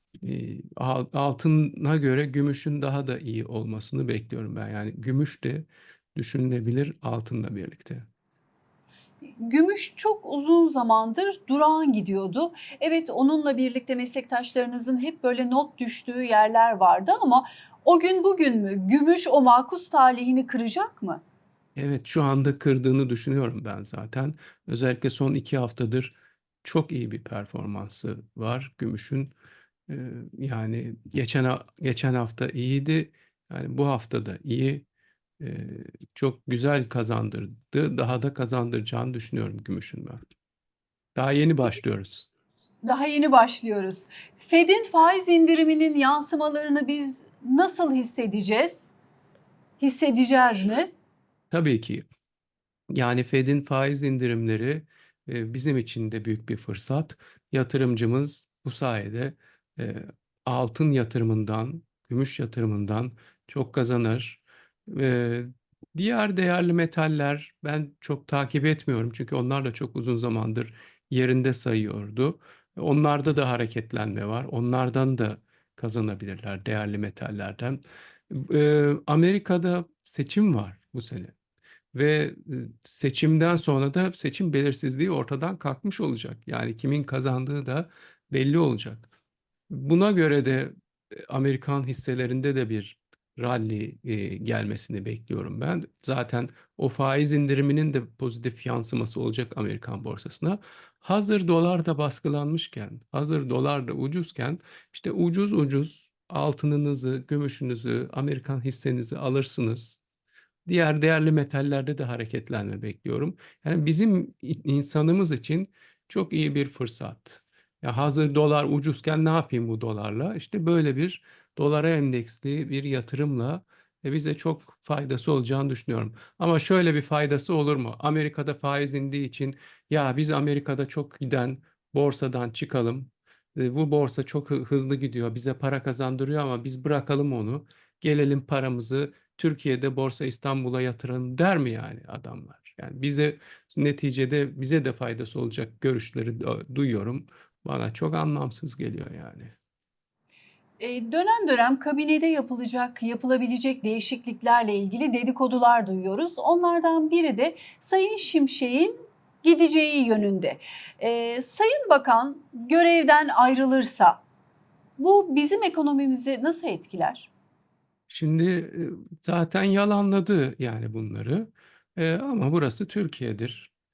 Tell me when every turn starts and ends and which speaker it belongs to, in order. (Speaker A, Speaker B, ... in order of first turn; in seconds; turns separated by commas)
Speaker A: 0.2-8.1, Speaker B: 9.4-21.2, Speaker A: 21.8-29.3, Speaker A: 29.9-34.8, Speaker A: 35.4-40.2, Speaker A: 41.1-42.3, Speaker B: 42.8-48.9, Speaker B: 49.8-50.9, Speaker A: 51.5-52.0, Speaker A: 52.9-81.3, Speaker A: 81.9-89.1, Speaker A: 89.7-110.0, Speaker A: 110.7-149.5, Speaker B: 150.8-164.2, Speaker B: 165.0-167.3, Speaker A: 168.1-173.7